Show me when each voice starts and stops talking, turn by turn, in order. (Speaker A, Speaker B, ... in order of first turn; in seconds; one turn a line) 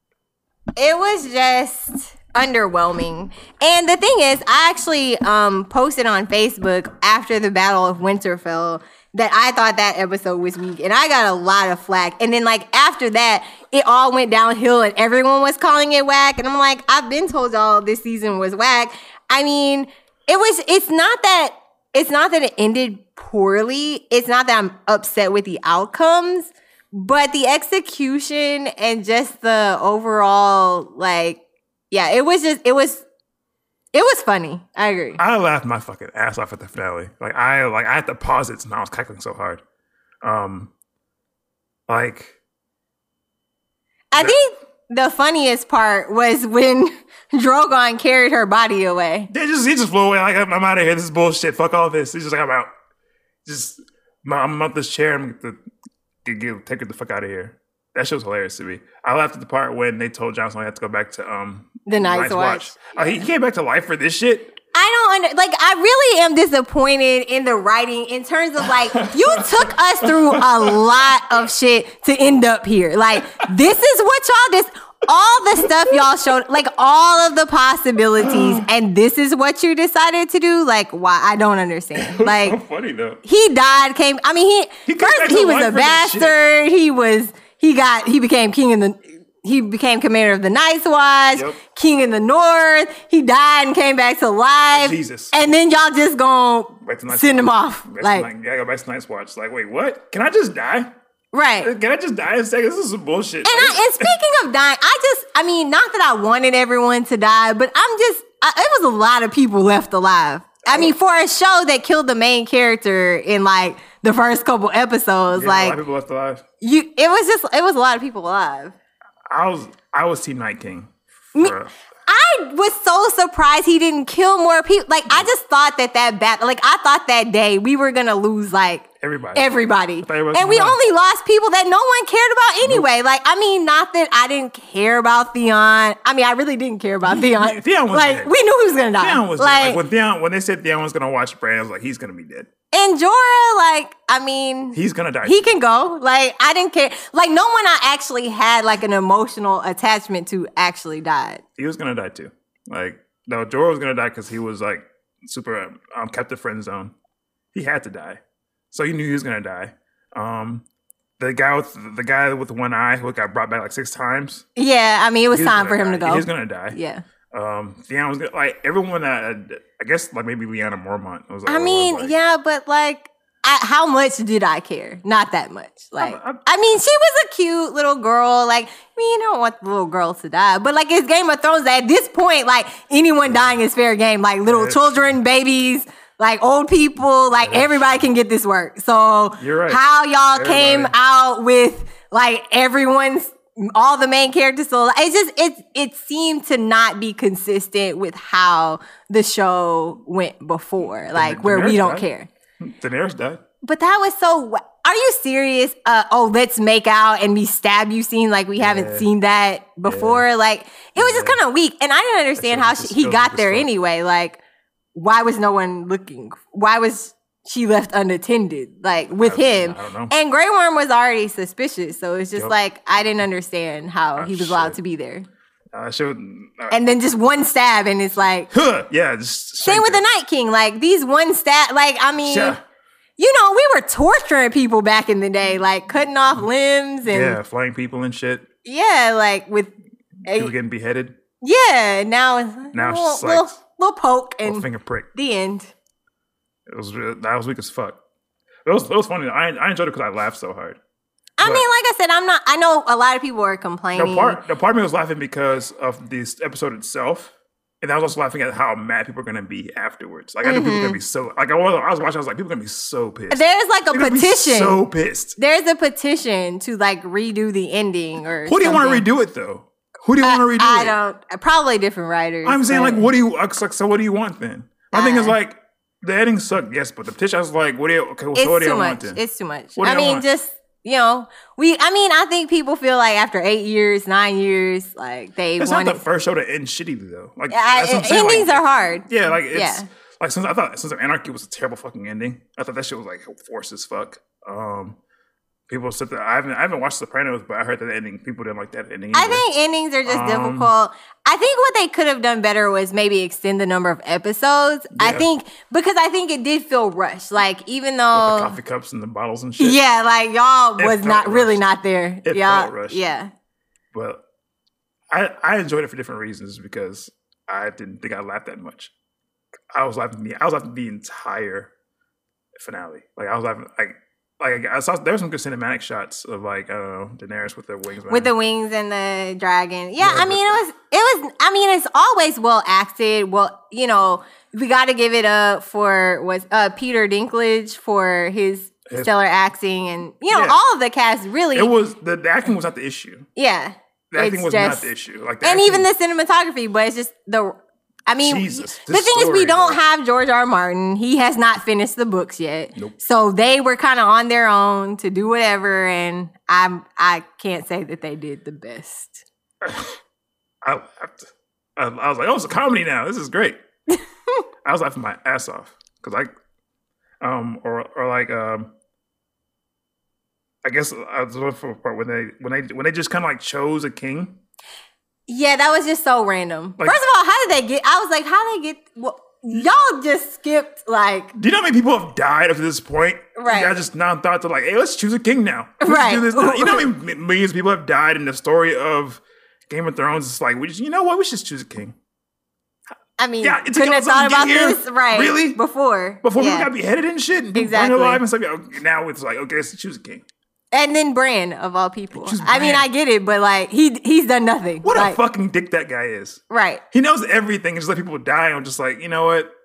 Speaker A: 0.8-33.0
Speaker A: 33.9-35.2
Speaker B: 35.2-39.6
Speaker B: 40.2-40.7
Speaker B: 41.9-42.4
Speaker A: 44.1-49.3
Speaker B: 49.3-52.7
Speaker B: 53.4-55.6
Speaker B: 56.2-64.5
Speaker A: 61.9-63.2
Speaker A: 64.7-82.6
Speaker B: 69.0-71.0
Speaker B: 78.2-78.6
Speaker B: 82.0-83.2
Speaker A: 83.2-98.3
Speaker B: 84.8-86.4
Speaker B: 94.7-95.3
Speaker B: 96.8-100.9
Speaker A: 101.3-101.7
Speaker B: 101.6-104.1
Speaker A: 103.4-115.8
Speaker B: 110.7-110.9
Speaker B: 115.3-116.4
Speaker A: 116.6-118.7
Speaker B: 119.3-121.7
Speaker A: 122.1-139.8
Speaker B: 129.0-130.8
Speaker B: 137.0-138.3
Speaker B: 139.0-142.5
Speaker A: 142.7-151.4
Speaker B: 144.7-145.5
Speaker B: 151.6-156.9
Speaker B: 157.5-158.2
Speaker B: 158.7-160.6
Speaker B: 161.2-164.4
Speaker A: 164.6-167.0
Speaker B: 165.3-166.8
Speaker B: 167.3-172.1
Speaker A: 171.5-202.3
Speaker B: 176.0-176.4
Speaker B: 184.4-185.2
Speaker B: 187.4-188.0
Speaker B: 189.4-190.9
Speaker B: 201.0-202.1
Speaker B: 202.6-203.4
Speaker A: 203.6-214.4
Speaker B: 208.6-209.1
Speaker B: 209.8-210.2
Speaker B: 211.0-211.4
Speaker B: 212.4-213.7
Speaker A: 214.9-225.3
Speaker B: 219.2-220.1
Speaker B: 224.2-224.8
Speaker B: 225.7-226.8
Speaker A: 226.7-228.5
Speaker B: 228.5-230.0
Speaker A: 229.6-232.6
Speaker B: 232.2-232.6
Speaker A: 233.2-237.4
Speaker B: 237.1-238.5
Speaker A: 238.6-239.7
Speaker A: 240.2-240.5
Speaker B: 240.3-241.2
Speaker A: 241.4-245.7
Speaker B: 242.7-243.5
Speaker B: 244.4-245.1
Speaker B: 246.7-248.0
Speaker B: 248.6-250.8
Speaker A: 251.4-254.4
Speaker B: 251.4-251.7
Speaker B: 253.9-263.4
Speaker A: 260.4-261.0
Speaker A: 263.3-264.8
Speaker B: 263.9-265.4
Speaker A: 265.4-269.0
Speaker B: 268.4-270.9
Speaker A: 270.2-273.1
Speaker B: 272.4-279.2
Speaker A: 274.9-275.4
Speaker A: 278.3-286.0
Speaker B: 279.8-280.2
Speaker B: 285.6-295.0
Speaker A: 287.5-289.9
Speaker B: 295.7-299.4
Speaker A: 299.1-308.5
Speaker B: 300.1-300.7
Speaker B: 304.9-305.3
Speaker B: 308.1-309.8
Speaker A: 309.6-313.3
Speaker B: 310.8-311.6
Speaker B: 312.2-313.0
Speaker B: 313.9-314.2
Speaker B: 315.1-318.9
Speaker B: 319.7-321.7
Speaker B: 322.5-328.3
Speaker A: 328.1-341.7
Speaker B: 330.0-330.6
Speaker B: 340.3-340.6
Speaker B: 341.5-343.3
Speaker A: 343.4-344.9
Speaker B: 344.1-345.9
Speaker A: 345.4-359.2
Speaker B: 348.2-349.8
Speaker B: 359.6-359.9
Speaker B: 360.6-363.6
Speaker B: 364.6-366.3
Speaker B: 367.2-368.7
Speaker B: 370.6-374.4
Speaker A: 375.3-381.3
Speaker B: 381.3-391.9
Speaker A: 383.4-383.8
Speaker A: 385.8-386.9
Speaker A: 393.2-396.7
Speaker B: 393.4-395.6
Speaker B: 396.2-400.2
Speaker A: 397.5-398.2
Speaker A: 400.7-405.2
Speaker B: 402.1-402.9
Speaker B: 404.8-406.4
Speaker A: 406.5-406.8
Speaker B: 406.9-409.5